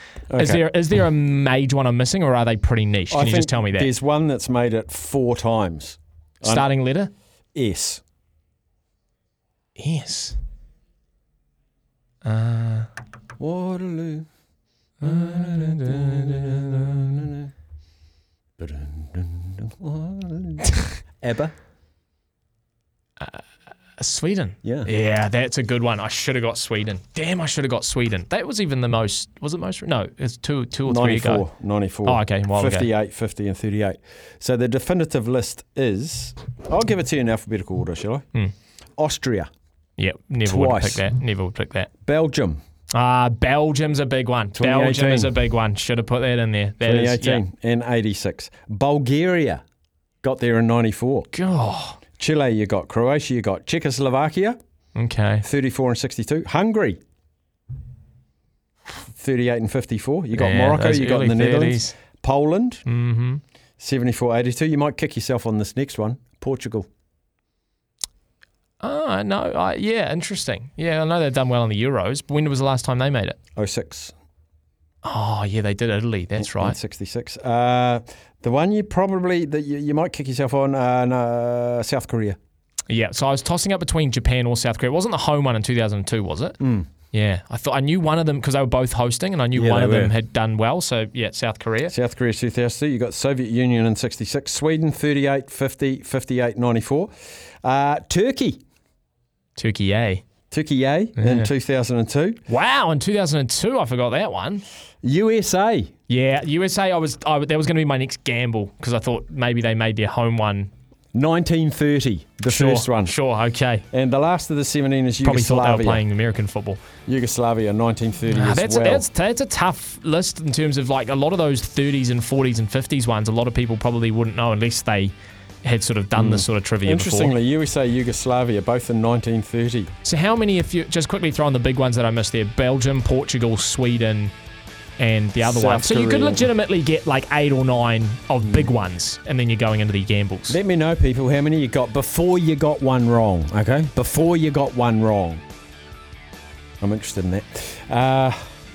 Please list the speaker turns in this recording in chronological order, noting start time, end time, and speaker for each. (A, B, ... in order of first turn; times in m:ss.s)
0:00.3-0:00.6 A
0:00.4-0:03.9 B
0:03.1-0:06.7 A
0:06.4-0:07.1 B
0:07.6-0:08.0 A
0:09.8-0:10.4 B
0:12.2-0:12.9 B
0:13.4-0:14.3 A
0:15.0-0:17.2 B
0:15.2-0:17.5 A
0:18.6-0:21.5 A
0:24.0-0:31.4 B
0:24.6-0:24.9 A
0:30.9-0:38.2 A
0:32.1-0:32.9 B
0:39.0-0:39.5 A
0:40.0-0:41.9 B
0:40.4-0:41.0 A
0:42.1-0:42.6 A
0:42.9-0:47.4 B
0:44.6-0:45.3 A
0:46.8-0:49.6 A
0:50.2-0:51.3 A
0:51.3-0:52.0 B
0:52.2-0:54.6 A
0:55.0-0:55.4 B
0:55.4-0:57.0 A
0:59.0-1:02.8 A
1:00.3-1:02.0 B
1:02.9-1:03.4 B
1:03.8-1:06.9 A
1:08.8-1:13.4 B
1:13.6-1:14.1 A
1:15.0-1:16.8 B
1:16.4-1:22.4 A
1:22.9-1:26.6 B
1:26.6-1:26.9 A
1:27.1-1:31.9 B
1:29.6-1:30.1 A
1:31.9-1:37.1 A
1:37.6-1:38.6 A
1:39.6-1:40.2 B
1:40.5-1:42.4 A
1:41.2-1:41.5 B
1:42.5-1:44.6 B
1:45.0-1:45.9 A
1:46.1-1:50.7 B
1:51.1-1:53.2 A
1:52.5-1:53.9 B
1:53.9-1:56.0 A
1:55.2-1:56.8 B
1:57.1-1:59.1 A
1:58.3-2:05.1 B
2:05.6-2:07.3 B
2:06.2-2:09.9 A
2:10.0-2:14.3 B
2:15.0-2:20.6 B
2:15.4-2:16.5 A
2:20.5-2:25.4 A
2:26.8-2:28.4 A